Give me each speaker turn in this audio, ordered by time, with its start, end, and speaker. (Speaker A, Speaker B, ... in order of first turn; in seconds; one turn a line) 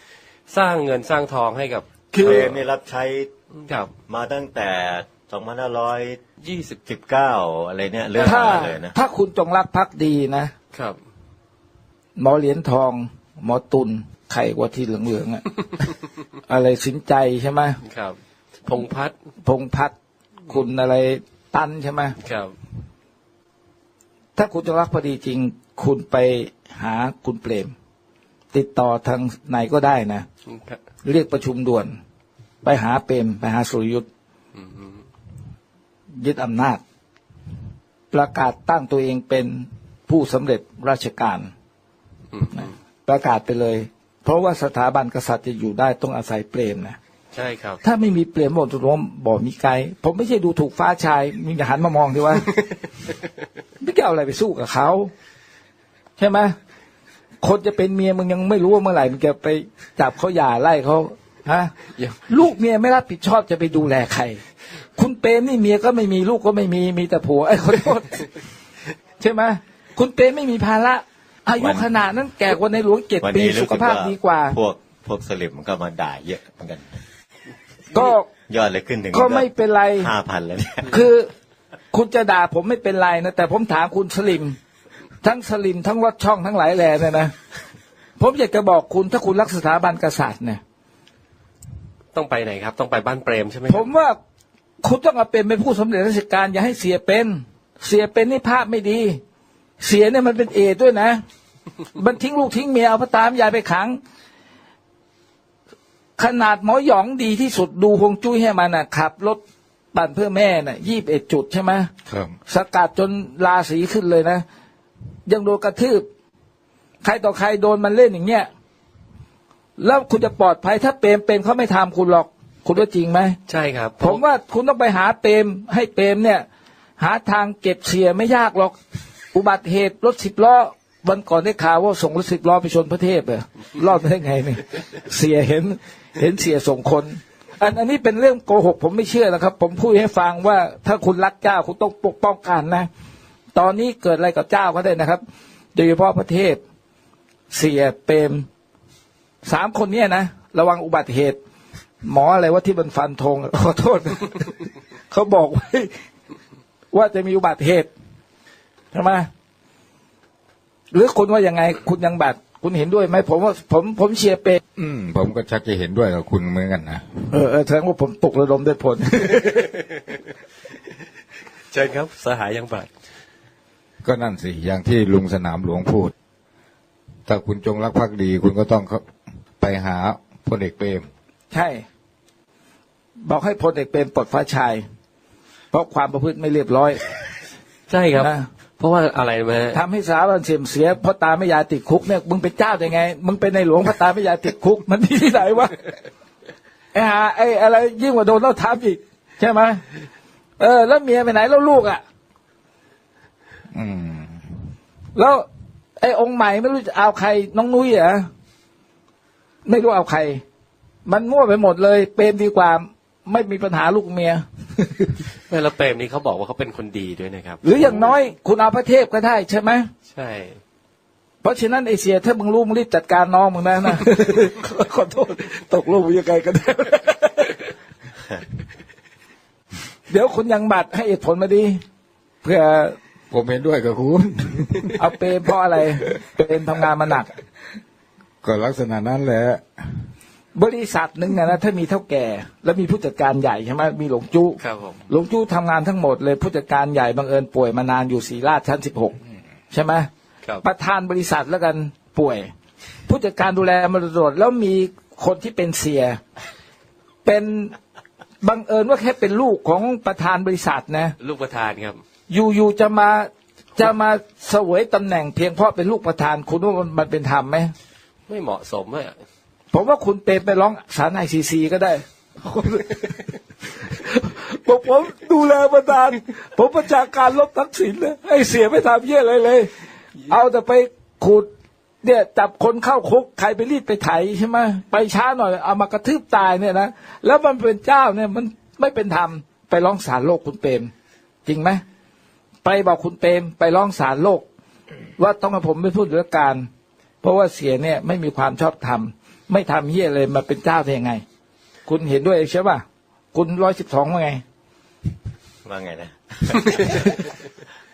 Speaker A: 0.5-2.5
Speaker B: 2.1-2.5
Speaker C: 2.2-3.3
Speaker A: 3.6-3.9
Speaker C: 4.1-6.2
Speaker A: 6.4-6.8
Speaker C: 6.9-8.9
Speaker B: 8.2-10.5
Speaker B: 12.2-15.4
Speaker B: 16.5-17.8
Speaker A: 17.8-19.1
Speaker B: 19.4-19.9
Speaker B: 20.5-22.1
Speaker A: 22.2-22.5
Speaker B: 24.4-27.7
Speaker B: 28.5-30.2
Speaker A: 30.5-30.8
Speaker B: 31.0-32.0
Speaker B: 32.6-34.1
Speaker A: 34.5-35.0
Speaker B: 36.2-36.8
Speaker B: 38.1-41.5
Speaker A: 42.3-42.7
Speaker B: 42.5-47.0
Speaker A: 47.3-47.8
Speaker B: 47.8-52.5
Speaker B: 53.8-55.1
Speaker B: 56.2-56.5
Speaker B: 57.4-61.7
Speaker B: 62.3-64.4
Speaker B: 65.0-68.3
Speaker B: 69.2-74.6
Speaker C: 71.6-71.8
Speaker C: 73.2-76.8
Speaker B: 77.9-78.3
Speaker C: 78.5-79.5
Speaker B: 79.1-80.1
Speaker C: 80.0-80.9
Speaker B: 80.9-81.3
Speaker B: 81.9-84.6
Speaker B: 85.2-87.3
Speaker B: 88.2-90.6
Speaker A: 92.1-93.8
Speaker B: 93.7-94.2
Speaker B: 94.8-99.2
Speaker B: 99.8-101.2
Speaker B: 102.0-104.0
Speaker B: 106.2-109.4
Speaker B: 109.9-111.9
Speaker D: 112.1-112.3
Speaker B: 112.5-114.4
Speaker B: 115.2-116.1
Speaker B: 117.0-118.5
Speaker B: 119.8-123.4
Speaker A: 123.5-124.2
Speaker B: 124.0-126.5
Speaker B: 127.0-128.8
Speaker B: 129.3-142.9
Speaker B: 143.5-145.2
Speaker B: 145.7-146.6
Speaker B: 147.5-148.5
Speaker B: 149.4-151.4
Speaker B: 152.0-154.5
Speaker B: 155.1-155.9
Speaker B: 156.9-157.9
Speaker B: 158.9-159.3
Speaker B: 160.9-164.6
Speaker D: 164.8-167.1
Speaker B: 167.3-169.7
Speaker A: 171.7-172.9
Speaker D: 174.0-176.1
Speaker D: 177.2-179.1
Speaker D: 179.6-181.1
Speaker B: 181.5-181.8
Speaker B: 183.2-184.8
Speaker B: 185.7-187.0
Speaker A: 187.9-189.8
Speaker B: 188.2-188.5
Speaker B: 189.7-195.8
Speaker B: 196.9-199.8
Speaker B: 200.6-202.0
Speaker D: 203.7-204.4
Speaker B: 205.2-205.4
Speaker B: 206.0-208.3
Speaker B: 209.7-210.4
Speaker B: 211.1-215.1
Speaker A: 215.5-218.1
Speaker B: 217.6-219.9
Speaker A: 220.1-220.6
Speaker B: 221.4-227.6
Speaker B: 230.1-231.8
Speaker B: 232.4-233.0
Speaker D: 233.3-235.0
Speaker B: 235.0-237.3
Speaker D: 238.4-239.7
Speaker B: 240.5-249.2
Speaker A: 244.6-245.0
Speaker B: 249.7-250.1
Speaker B: 250.6-252.5
Speaker B: 253.1-256.2
Speaker B: 257.2-257.8
Speaker B: 258.4-261.1
Speaker A: 261.2-262.0
Speaker B: 262.3-267.7
Speaker A: 268.3-269.1
Speaker B: 269.7-273.2
Speaker B: 273.8-279.7
Speaker B: 280.3-281.5
Speaker B: 282.0-290.9
Speaker B: 291.4-291.8
Speaker B: 292.6-294.4
Speaker B: 295.2-296.7
Speaker B: 297.2-301.2
Speaker B: 301.9-304.4
Speaker C: 305.6-307.1
Speaker A: 306.6-307.1